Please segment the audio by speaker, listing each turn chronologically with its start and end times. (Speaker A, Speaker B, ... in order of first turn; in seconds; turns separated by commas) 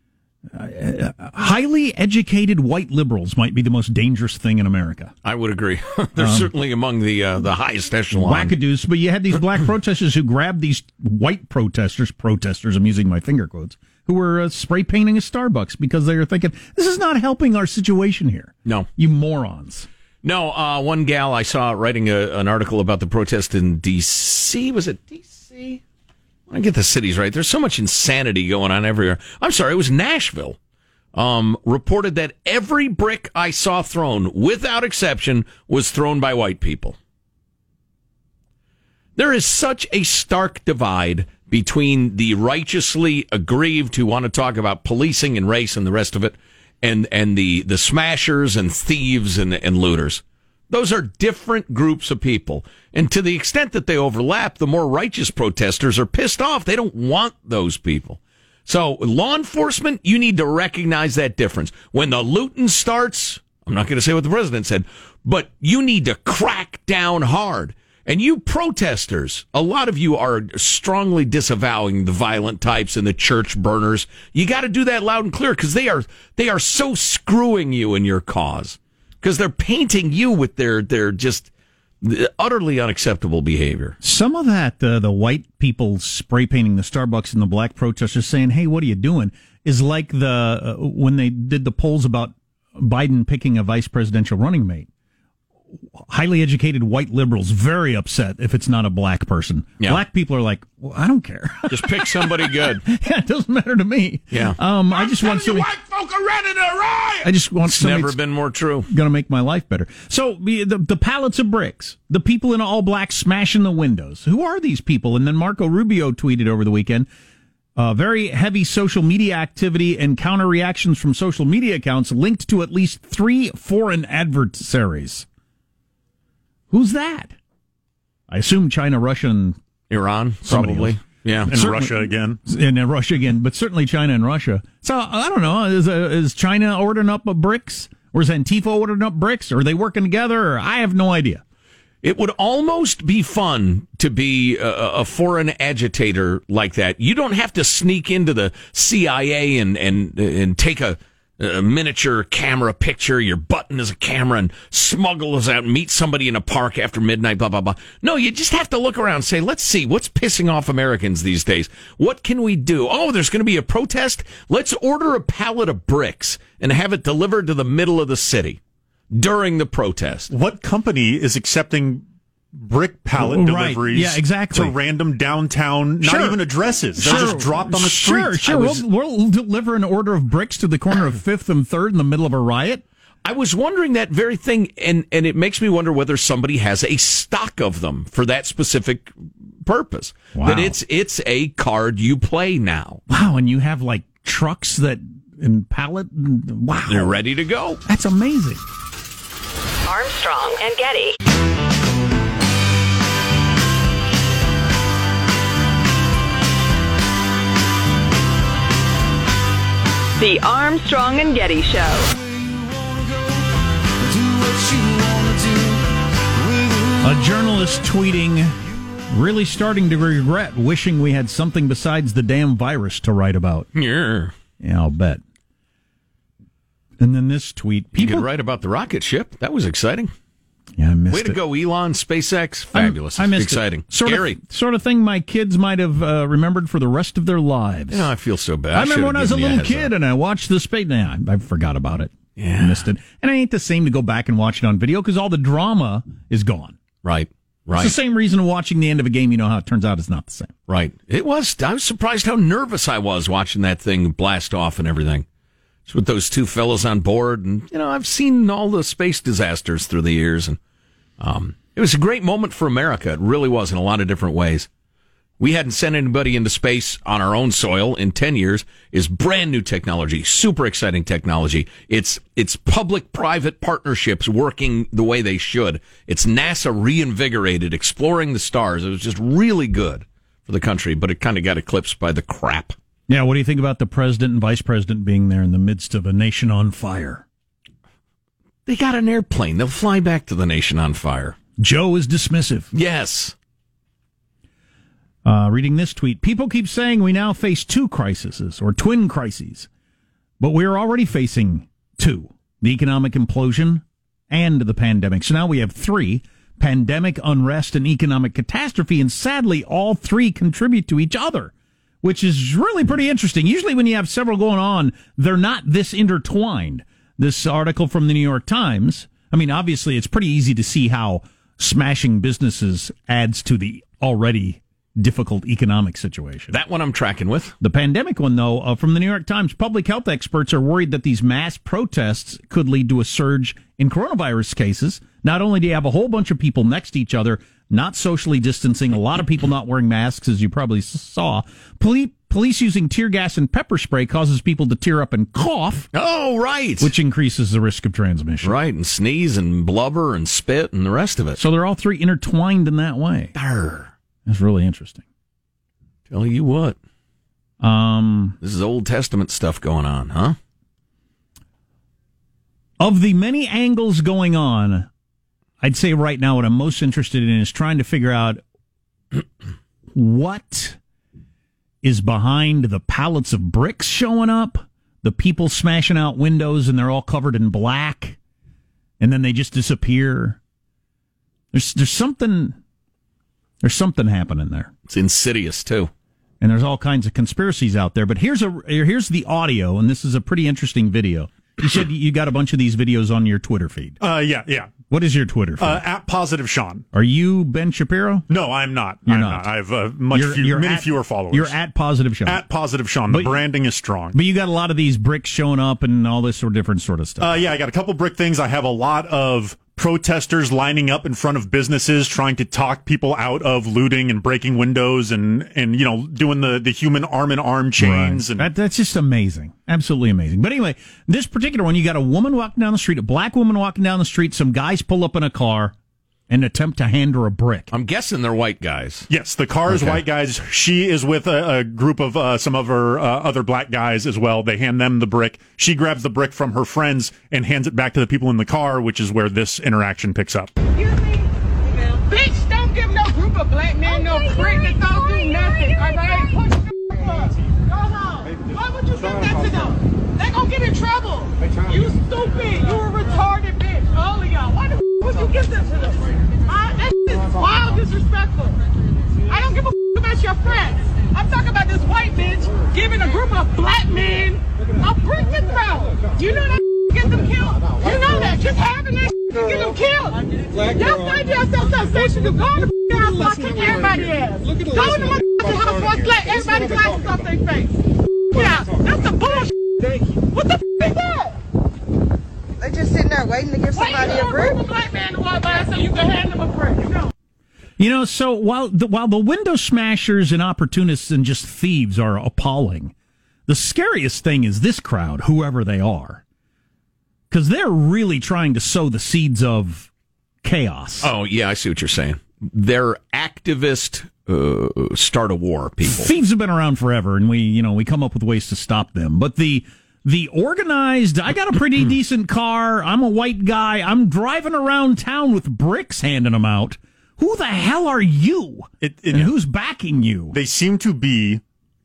Speaker A: 0.5-5.1, Speaker B: 5.2-8.5, Speaker A: 6.2-6.5, Speaker A: 8.1-19.9, Speaker B: 20.2-25.8, Speaker B: 26.5-30.6, Speaker B: 31.1-37.0, Speaker B: 39.1-81.5, Speaker B: 82.0-84.0, Speaker A: 84.0-94.9, Speaker A: 96.1-105.7, Speaker B: 101.7-102.8, Speaker B: 104.3-108.9, Speaker A: 107.2-108.2, Speaker A: 108.9-117.1, Speaker A: 117.8-125.3, Speaker A: 126.7-127.3, Speaker A: 128.3-129.6, Speaker B: 129.9-131.5, Speaker A: 130.5-141.4, Speaker C: 131.5-132.4, Speaker B: 142.0-168.6, Speaker B: 169.1-170.3, Speaker C: 170.3-178.7, Speaker A: 173.2-174.8, Speaker A: 176.0-176.4, Speaker A: 177.0-182.8, Speaker B: 177.1-177.3, Speaker B: 183.2-193.0, Speaker A: 190.3-190.8, Speaker A: 193.1-197.2, Speaker B: 196.9-197.8, Speaker A: 197.8-198.6, Speaker D: 199.9-201.1, Speaker D: 210.2-212.1, Speaker B: 214.2-215.7, Speaker A: 217.0-218.6, Speaker A: 219.1-223.7, Speaker B: 223.7-224.3, Speaker A: 224.6-225.2, Speaker A: 227.0-228.2, Speaker B: 227.9-230.1, Speaker A: 230.8-231.4, Speaker B: 231.1-234.4, Speaker A: 232.7-238.1, Speaker B: 237.9-239.9, Speaker A: 238.7-246.8, Speaker B: 242.3-242.8, Speaker B: 247.0-247.9, Speaker A: 247.8-250.5, Speaker B: 250.7-255.2, Speaker B: 255.9-260.6, Speaker B: 261.2-264.7, Speaker B: 265.4-282.8, Speaker A: 283.1-287.2, Speaker B: 288.6-291.4, Speaker A: 291.6-292.7, Speaker B: 292.7-293.4, Speaker A: 295.2-299.7, Speaker A: 300.4-326.6, Speaker B: 326.5-327.5, Speaker A: 327.6-345.9, Speaker B: 345.9-346.9, Speaker A: 346.8-348.6, Speaker B: 348.4-351.4, Speaker A: 351.4-353.3, Speaker B: 353.3-353.9, Speaker A: 354.2-355.0, Speaker B: 356.1-356.8, Speaker A: 357.6-358.4, Speaker B: 358.4-360.4, Speaker A: 362.8-364.9, Speaker A: 365.6-368.4, Speaker A: 369.9-370.8, Speaker A: 371.8-378.2, Speaker A: 379.0-380.4, Speaker A: 381.5-382.6, Speaker A: 383.6-384.7, Speaker B: 384.9-385.9, Speaker A: 386.4-394.0, Speaker C: 394.0-394.8, Speaker A: 394.9-395.8, Speaker C: 395.6-396.8, Speaker A: 396.9-398.3, Speaker C: 398.3-401.6, Speaker A: 399.1-399.5, Speaker A: 400.1-402.4, Speaker C: 402.2-404.1, Speaker A: 403.1-403.4, Speaker A: 404.1-407.3, Speaker C: 407.2-418.5, Speaker A: 417.8-425.7, Speaker A: 426.3-427.7, Speaker B: 427.7-429.1, Speaker C: 429.1-440.5, Speaker A: 429.7-430.0, Speaker E: 440.8-441.3, Speaker E: 442.0-458.6, Speaker E: 459.3-477.8, Speaker E: 478.3-479.5, Speaker E: 480.3-481.3, Speaker F: 482.6-484.6, Speaker E: 483.7-487.1, Speaker A: 487.8-492.9, Speaker A: 493.5-496.2, Speaker A: 497.3-499.9, Speaker A: 500.4-501.1, Speaker B: 501.0-506.1, Speaker A: 505.9-520.4, Speaker C: 518.8-519.3, Speaker C: 520.3-521.4